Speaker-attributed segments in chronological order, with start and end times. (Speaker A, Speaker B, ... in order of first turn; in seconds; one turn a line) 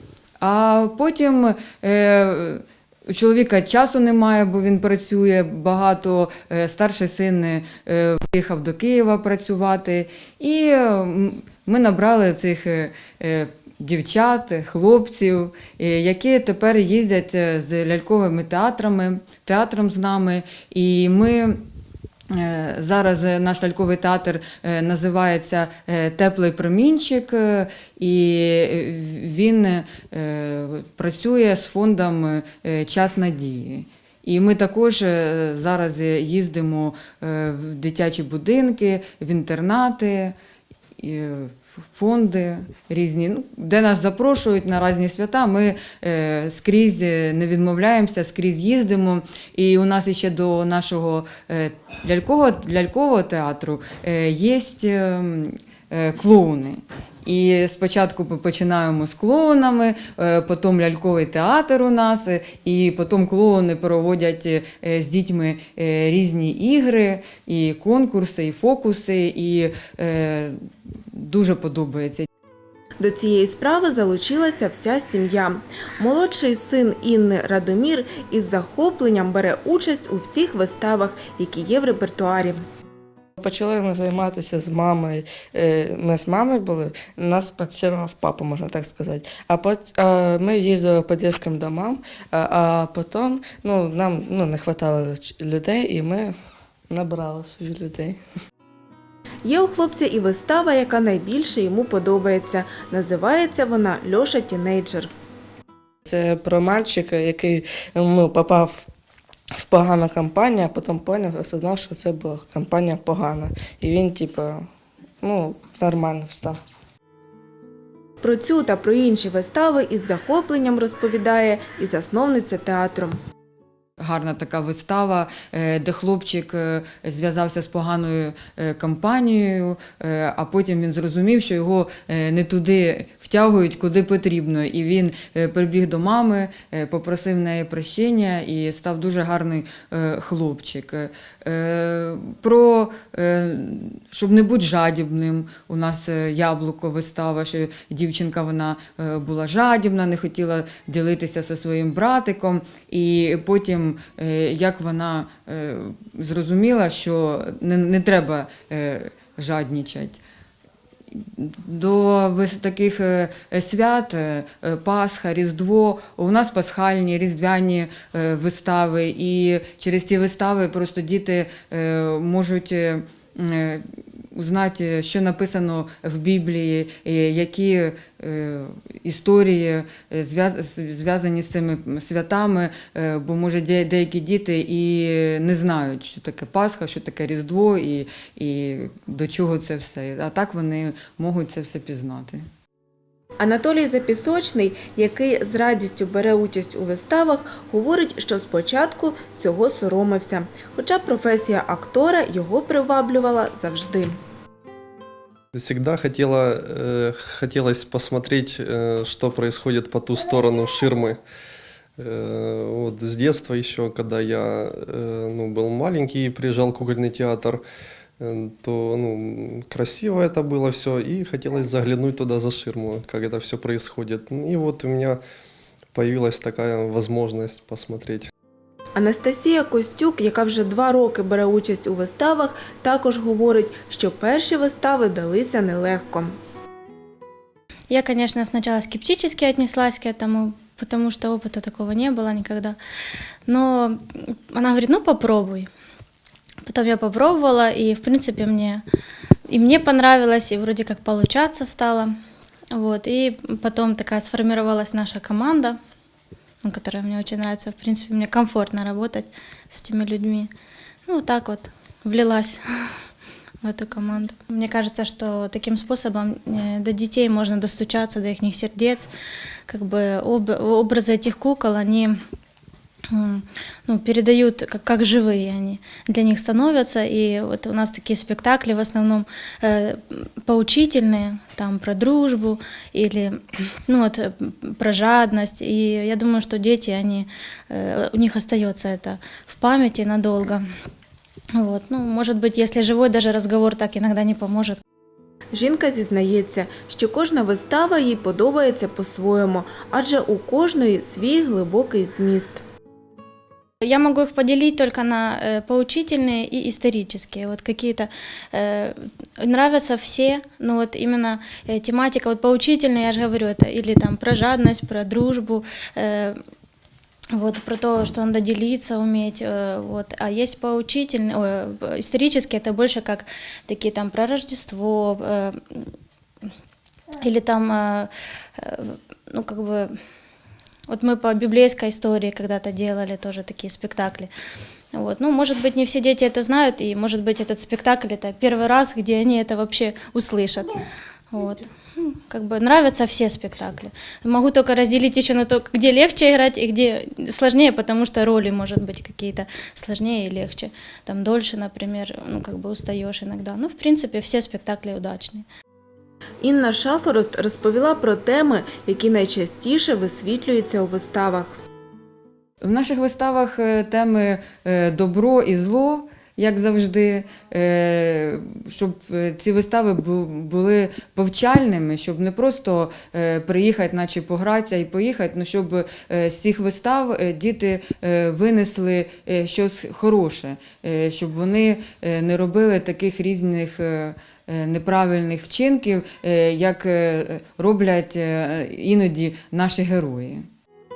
Speaker A: 0.4-21.7
Speaker A: 22.3-40.4
Speaker A: 41.0-72.3
Speaker B: 73.0-82.6
Speaker C: 83.4-96.3
Speaker C: 96.9-98.2
Speaker B: 99.5-105.1
Speaker C: 106.1-108.9
Speaker C: 109.5-114.7
Speaker C: 115.2-116.6
Speaker B: 118.2-123.2
Speaker A: 124.0-160.2
Speaker A: 161.1-192.5
Speaker B: 193.4-204.2
Speaker D: 205.5-211.2
Speaker D: 212.0-217.6
Speaker D: 218.2-225.2
Speaker D: 225.9-228.3
Speaker B: 229.0-236.4
Speaker E: 237.9-242.8
Speaker E: 243.5-245.7
Speaker E: 246.7-248.8
Speaker E: 249.5-252.1
Speaker E: 252.7-255.8
Speaker E: 256.6-260.5
Speaker E: 261.1-263.0
Speaker E: 263.6-269.1
Speaker E: 269.7-272.2
Speaker E: 273.1-290.7
Speaker E: 291.5-294.8
Speaker B: 295.5-302.6
Speaker E: 303.8-316.4
Speaker E: 317.3-325.9
Speaker E: 327.2-330.0
Speaker E: 330.9-334.3
Speaker E: 334.9-340.8
Speaker E: 341.3-355.4
Speaker B: 356.4-361.6
Speaker A: 362.6-390.5